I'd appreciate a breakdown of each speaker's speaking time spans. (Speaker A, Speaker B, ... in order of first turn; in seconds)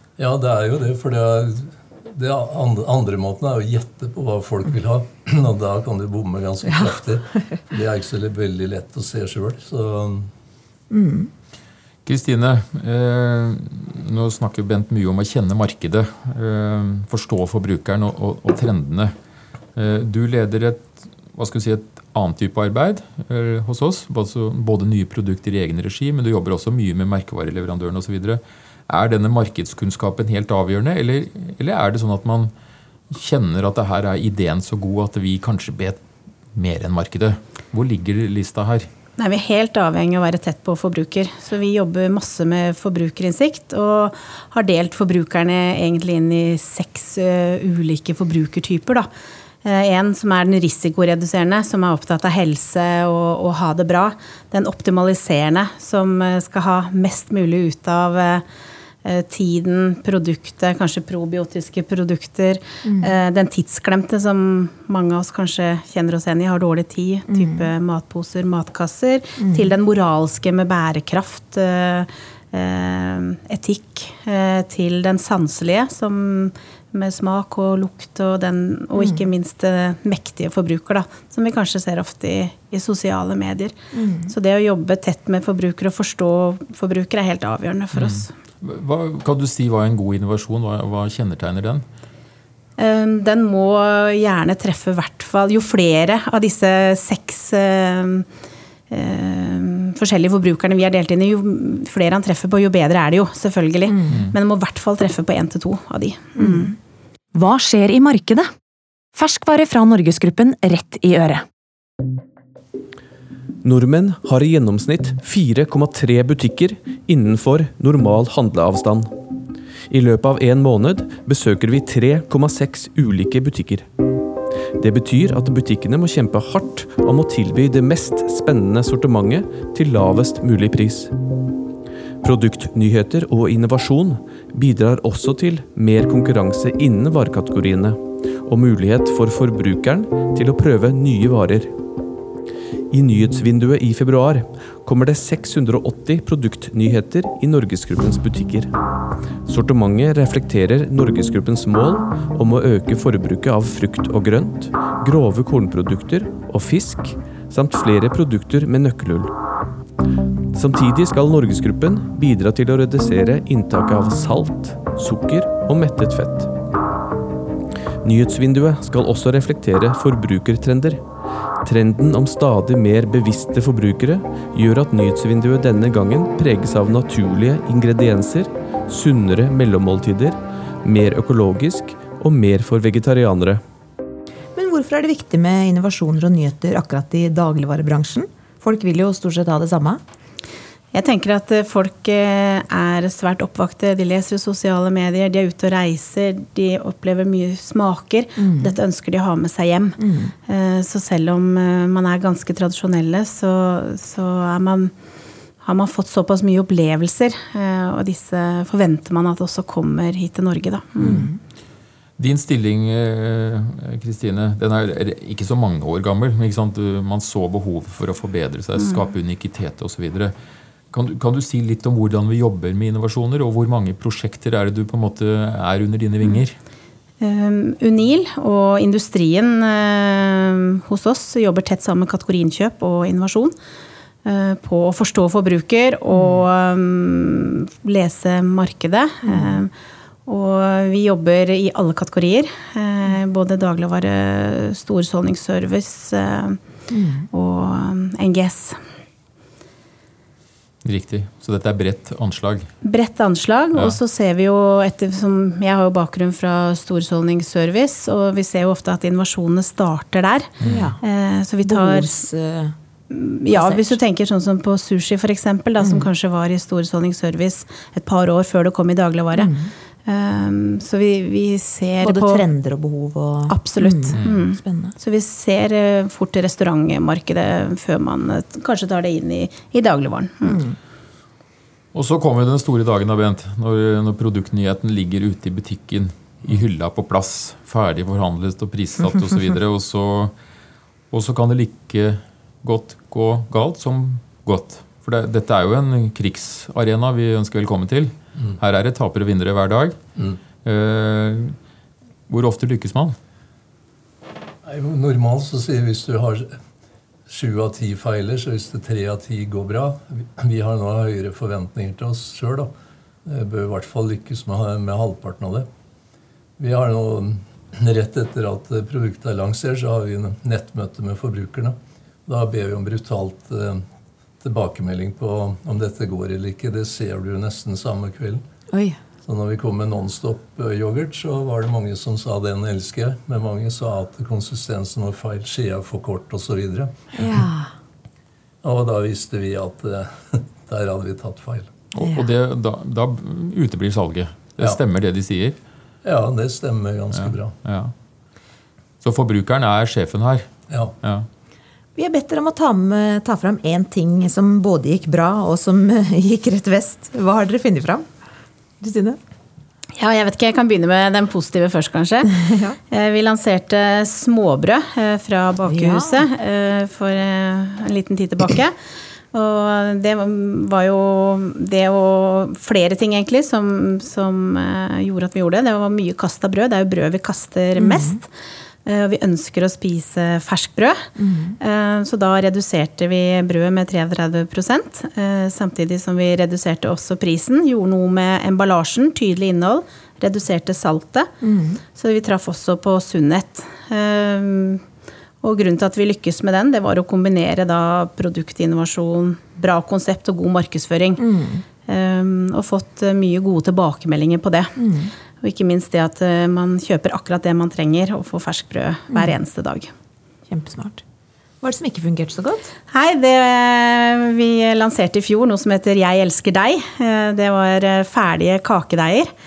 Speaker A: 0.2-10.3, 304.6-306.5, 307.3-312.7, 313.2-315.7, 316.6-323.8, 324.4-328.4, 329.2-336.9, 338.6-341.7, 346.0-347.5, 350.7-350.9
Speaker B: 10.9-11.3, 62.8-63.1, 67.3-67.7, 69.4-69.7, 79.0-79.2, 83.9-84.3, 103.9-104.2, 106.4-106.7, 184.5-190.0, 198.4-198.8, 200.0-200.3, 211.0-211.3, 236.1-236.4, 239.3-239.6, 246.9-247.2, 260.6-261.0, 261.6-262.7, 263.5-264.0, 265.8-266.1, 269.3-269.7, 272.0-274.9, 280.4-280.7, 337.1-337.7, 352.0-358.1, 358.8-359.2, 362.4-362.8, 365.6-366.3, 377.8-378.2, 381.2-381.6, 391.4-391.8, 401.2-401.6, 404.8-405.1, 409.1-409.4, 410.5-411.0, 411.6-412.7
Speaker C: 12.0-19.1, 19.7-32.5, 33.1-36.0, 36.5-38.9, 87.9-91.8, 104.1-104.3, 212.2-220.3, 220.9-226.6, 250.8-252.7, 253.7-254.0, 260.6-260.9, 274.2-274.4, 281.9-290.3, 291.1-299.9, 300.6-301.5, 302.3-303.1, 341.9-345.6, 347.1-347.9, 349.0-350.5
Speaker D: 39.2-49.1, 49.6-58.4, 59.0-83.7, 84.3-88.3, 92.8-98.2, 98.9-106.7, 190.9-204.9, 205.6-211.3, 227.2-233.5, 234.2-239.7, 240.2-246.6, 247.3-248.8, 252.8-260.5, 261.0-262.1, 263.1-269.5, 270.0-272.4, 273.5-280.6, 360.0-362.3, 362.9-368.7, 369.3-378.3, 378.8-381.1, 381.6-391.3, 391.9-394.8, 395.4-401.2, 401.9-404.7, 405.4-409.9, 412.9-419.3
Speaker E: 107.3-108.5, 109.1-111.4
Speaker F: 113.6-119.1, 119.9-123.9, 124.8-131.1, 132.2-141.8, 142.9-148.7, 149.4-159.3, 160.5-166.5, 168.0-171.0, 171.6-183.6